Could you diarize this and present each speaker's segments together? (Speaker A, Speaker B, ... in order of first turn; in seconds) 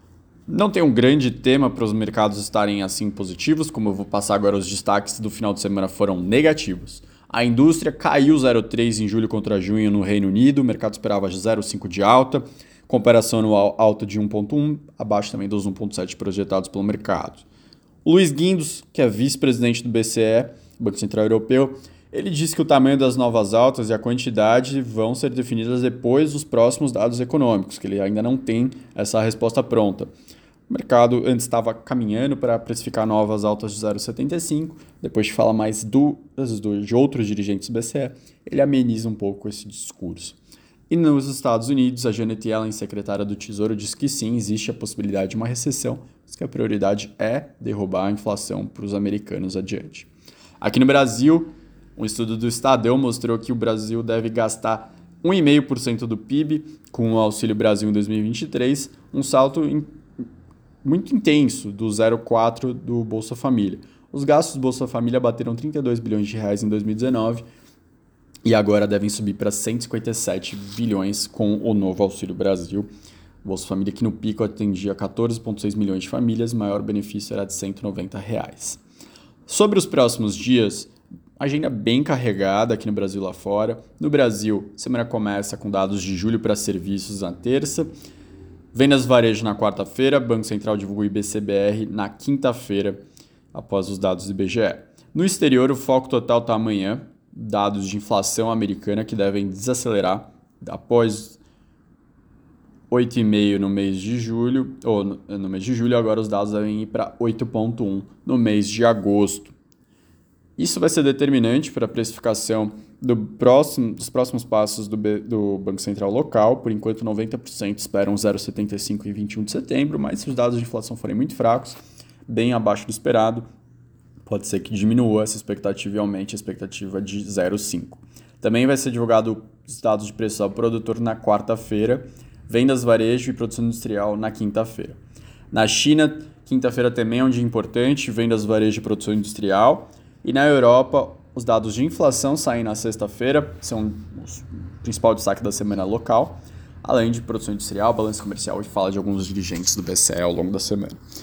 Speaker A: 0.5-17.4, 18.1-30.1, 30.7-40.4, 40.9-50.1, 50.6-59.9, 60.8-67.4, 68.5-72.9, 73.4-78.8, 79.5-87.9, 88.7-93.0, 93.5-101.4, 102.9-109.5, 110.6-123.5, 124.2-135.0, 135.5-151.0